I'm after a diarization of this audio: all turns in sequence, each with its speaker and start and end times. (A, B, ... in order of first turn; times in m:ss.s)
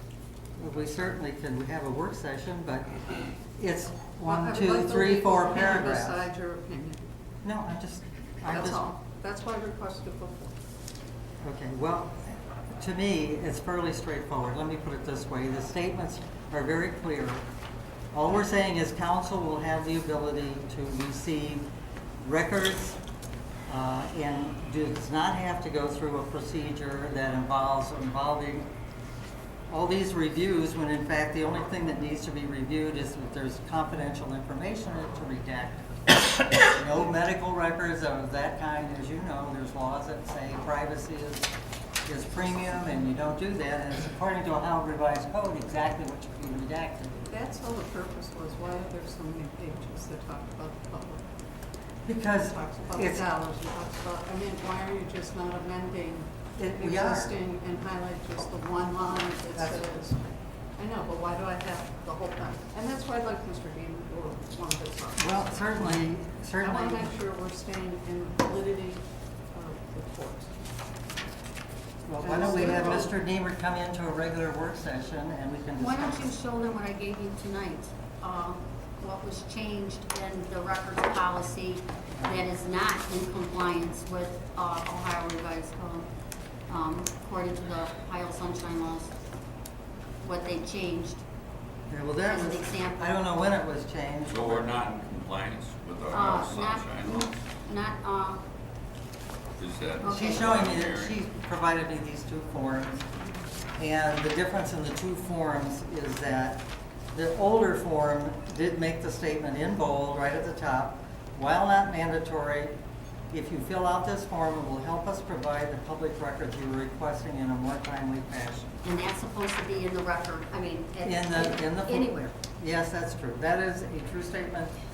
0:00.6-0:02.9 A
0:03.6-0:06.3 A
0:04.3-0:07.0 B
0:07.4-0:08.9 A
0:08.5-0:10.6 B
0:11.4-0:17.4 A
0:18.1-0:21.7 A
0:22.2-0:23.0 A
0:23.7-0:28.7 A
0:29.7-0:36.0 A
0:36.6-0:41.5 A
0:42.1-0:47.3 A
0:47.3-0:51.3 B
0:52.1-0:53.2 A
0:52.4-1:00.2 B
0:56.6-0:57.4 A
0:59.6-1:00.0 A
1:00.8-1:06.1 B
1:05.2-1:07.1 A
1:06.6-1:10.5 B
1:12.1-1:16.3 A
1:12.2-1:13.1 B
1:12.3-1:13.1 C
1:15.8-1:26.1 C
1:26.7-1:29.1 C
1:30.2-1:31.2 C
1:31.9-1:34.8 A
1:32.2-1:33.2 C
1:34.3-1:37.4 D
1:36.1-1:38.4 C
1:39.6-1:41.2 D
1:40.0-1:40.6 C
1:40.0-1:43.1 A
1:43.8-1:52.7 A
1:53.3-1:58.8 A
1:58.8-2:02.4 C
2:01.0-2:04.7 A